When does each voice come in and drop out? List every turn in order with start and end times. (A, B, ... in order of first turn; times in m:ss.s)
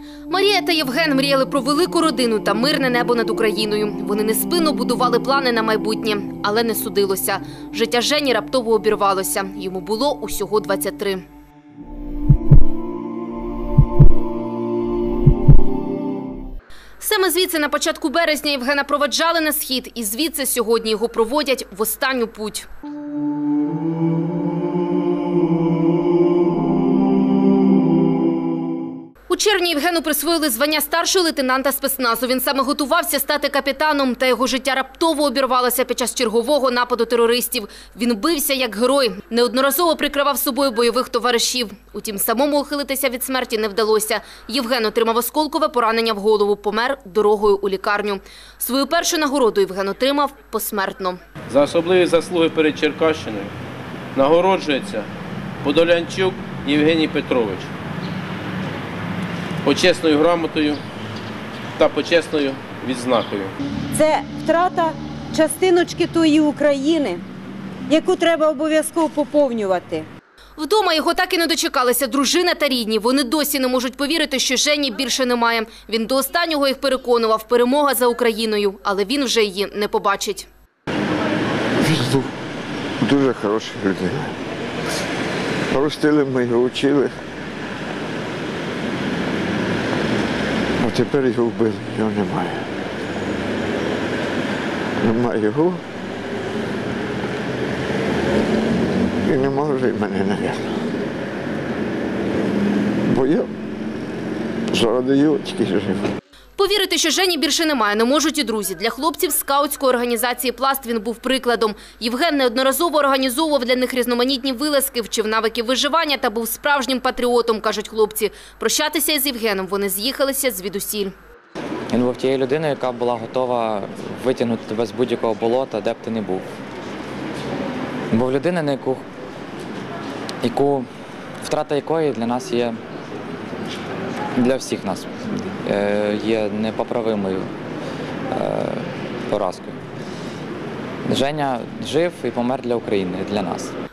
0:00.3-0:11.2 A
0:17.0-0:22.7 A
0:29.3-0:51.2 A
0:51.5-0:53.5 B
0:54.1-0:55.1 B
0:55.6-0:57.7 B
0:59.6-1:00.8 B
1:01.8-1:03.5 B
1:03.9-1:07.2 C
1:07.9-1:10.1 C
1:10.6-1:20.5 A
1:21.8-1:22.3 D
1:23.0-1:24.4 D
1:25.7-1:27.1 D
1:30.8-1:32.7 D
1:35.0-1:35.8 D
1:39.2-1:40.7 D
1:43.1-1:43.5 D
1:44.7-1:46.1 D
1:46.6-2:01.1 A
2:01.9-2:06.5 E
2:08.1-2:09.0 E
2:10.4-2:10.9 E
2:11.4-2:12.8 E
2:14.4-2:15.1 E
2:15.6-2:17.4 E
2:18.3-2:19.7 E
2:21.0-2:23.7 E